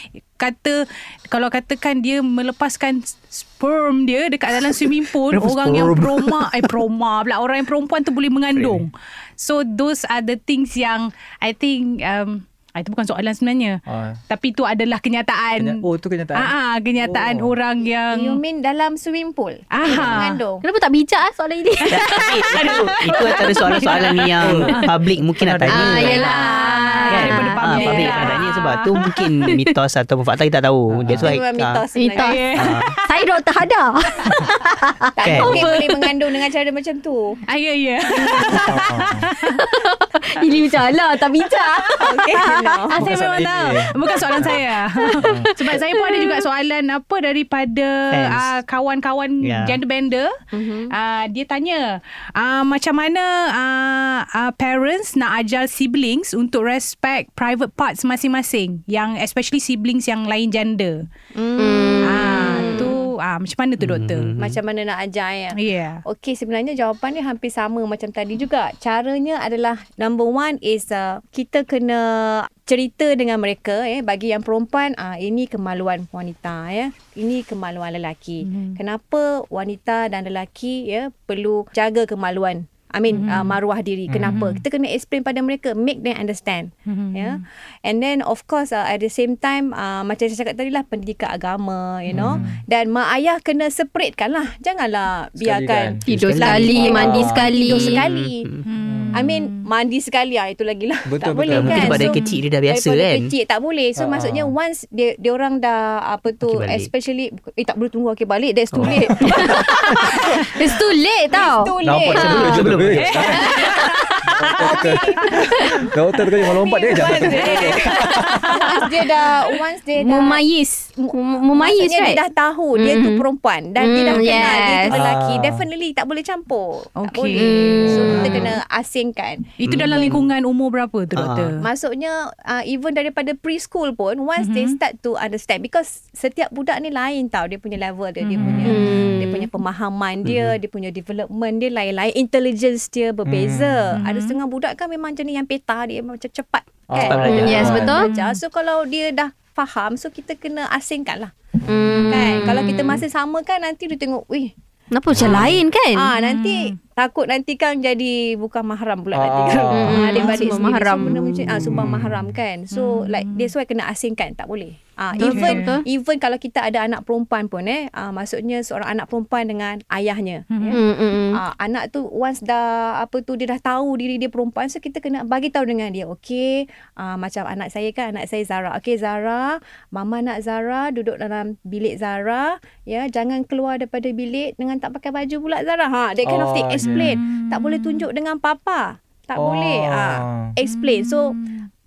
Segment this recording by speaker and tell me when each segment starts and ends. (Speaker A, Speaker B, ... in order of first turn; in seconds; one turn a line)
Speaker A: 0.4-18.4
Speaker B: 5.3-6.7
Speaker C: 8.5-8.9
Speaker C: 13.9-14.2
Speaker C: 15.6-17.5
Speaker D: 18.1-20.6
Speaker A: 19.7-20.4
Speaker C: 19.9-20.2
Speaker E: 20.6-24.0
Speaker B: 21.9-26.3
Speaker A: 22.0-24.9
Speaker C: 24.4-24.8
Speaker C: 25.4-26.1
Speaker E: 25.7-28.2
Speaker A: 25.8-29.0
Speaker D: 26.5-28.4
Speaker B: 27.1-31.8
Speaker E: 29.4-29.8
Speaker C: 30.9-31.3
Speaker D: 31.2-32.6
Speaker E: 32.0-36.1
Speaker A: 32.2-33.2
Speaker B: 32.5-32.9
Speaker D: 35.1-37.4
Speaker B: 35.2-35.7
Speaker A: 37.5-39.7
Speaker E: 38.2-38.7
Speaker C: 38.7-39.3
Speaker E: 39.5-42.8
Speaker A: 41.4-42.0
Speaker D: 42.0-43.0
Speaker A: 43.0-50.4
Speaker C: 43.0-44.6
Speaker E: 45.0-46.5
Speaker C: 45.2-45.5
Speaker B: 48.1-48.5
Speaker B: 49.4-49.8
Speaker D: 50.5-50.9
Speaker A: 50.9-61.0
Speaker D: 61.3-63.0
Speaker E: 61.6-62.9
Speaker A: 62.0-64.3
Speaker B: 63.8-64.6
Speaker D: 64.4-98.5
Speaker A: 65.5-66.0
Speaker A: 78.4-78.8
Speaker A: 83.1-83.5
Speaker C: 84.1-84.6
Speaker A: 86.9-87.4
Speaker C: 92.1-92.6
Speaker C: 95.4-96.0
Speaker E: 96.0-98.0
Speaker B: 96.1-97.1
Speaker C: 96.8-97.5
Speaker B: 97.7-98.6
Speaker A: 98.7-99.7
Speaker C: 98.8-99.2
Speaker D: 99.1-110.5
Speaker C: 101.0-102.1
Speaker B: 101.5-103.3
Speaker C: 104.0-104.5
Speaker B: 106.5-106.9
Speaker B: 108.8-109.6
Speaker E: 109.2-112.6
Speaker D: 111.3-115.7
Speaker C: 111.8-113.5
Speaker B: 112.1-113.3
Speaker A: 113.0-114.0
Speaker E: 113.3-114.0
Speaker C: 114.3-118.5
Speaker D: 116.4-120.4
Speaker A: 116.8-118.9
Speaker E: 120.0-122.2
Speaker D: 121.0-129.5
Speaker E: 122.8-123.2
Speaker E: 123.8-125.0
Speaker C: 124.9-125.7
Speaker A: 127.0-128.5
Speaker E: 127.4-128.4
Speaker A: 129.6-131.6
Speaker B: 129.7-130.3
Speaker B: 131.2-131.6
Speaker D: 131.6-151.3
Speaker A: 134.4-134.8
Speaker A: 138.2-138.8
Speaker C: 138.4-139.1
Speaker E: 138.7-139.5
Speaker B: 140.2-140.6
Speaker C: 143.2-144.0
Speaker A: 143.9-144.4
Speaker C: 146.9-148.0
Speaker B: 147.0-147.8
Speaker E: 147.3-148.1
Speaker A: 148.0-148.4
Speaker E: 151.7-152.8
Speaker D: 152.0-154.5
Speaker E: 154.9-156.1
Speaker C: 155.1-155.5
Speaker B: 155.2-155.5
Speaker D: 155.9-191.4
Speaker A: 156.2-156.7
Speaker C: 159.1-160.3
Speaker E: 159.7-161.5
Speaker C: 161.7-162.4
Speaker A: 162.7-163.5
Speaker A: 165.2-165.8
Speaker E: 165.2-165.8
Speaker A: 170.5-170.8
Speaker E: 170.7-171.4
Speaker C: 186.2-187.2
Speaker A: 186.9-188.1
Speaker C: 189.3-190.5
Speaker A: 190.7-191.7